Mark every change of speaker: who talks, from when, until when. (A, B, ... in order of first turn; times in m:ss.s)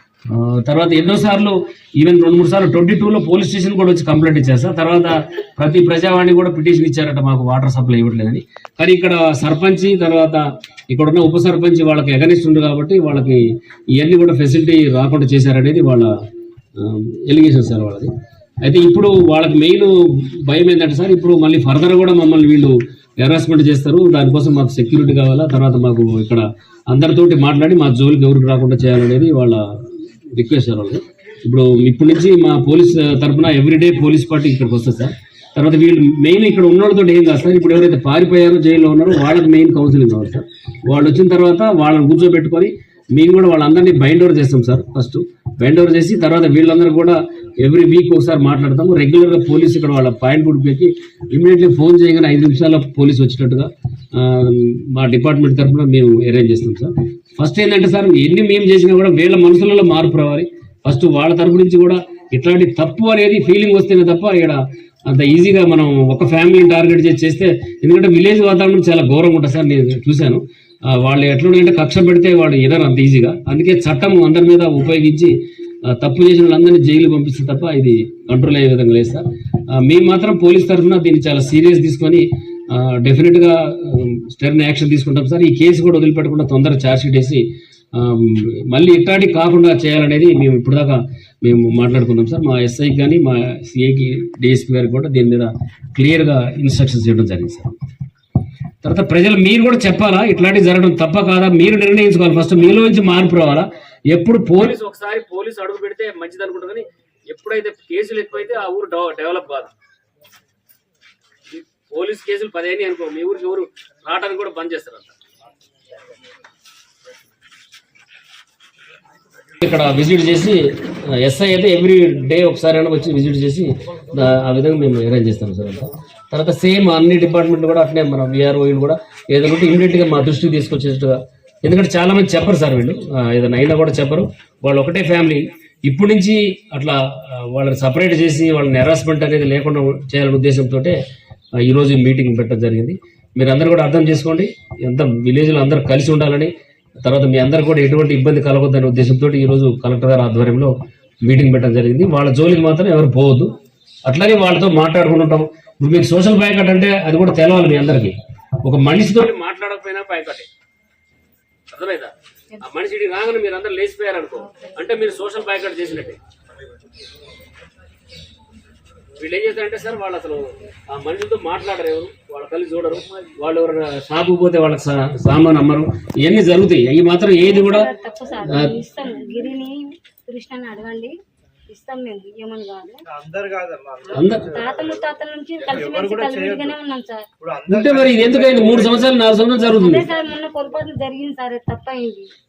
0:00.3-0:13.4 A
0:13.9-0:16.1 A
0:16.8-0:18.1 A
0:18.6-1:15.3 A
1:15.9-1:27.4 A
1:28.0-1:37.8 A
1:38.8-1:49.7 A
1:51.5-1:55.2 A
1:59.6-2:21.0 A
2:21.6-2:26.5 A
2:27.0-2:30.7 A
2:31.2-2:33.5 A
2:34.1-2:40.5 A
2:41.7-2:46.2 A
2:44.5-2:44.8 B
2:49.2-2:57.9 A
2:57.4-3:01.2 B
2:58.5-2:58.7 A
3:01.7-3:03.0 B
3:03.2-3:04.1 C
3:04.1-3:04.5 A
3:04.4-3:07.3 B
3:05.9-3:06.7 C
3:07.4-3:08.8 C
3:07.7-3:10.1 A
3:09.7-3:12.3 B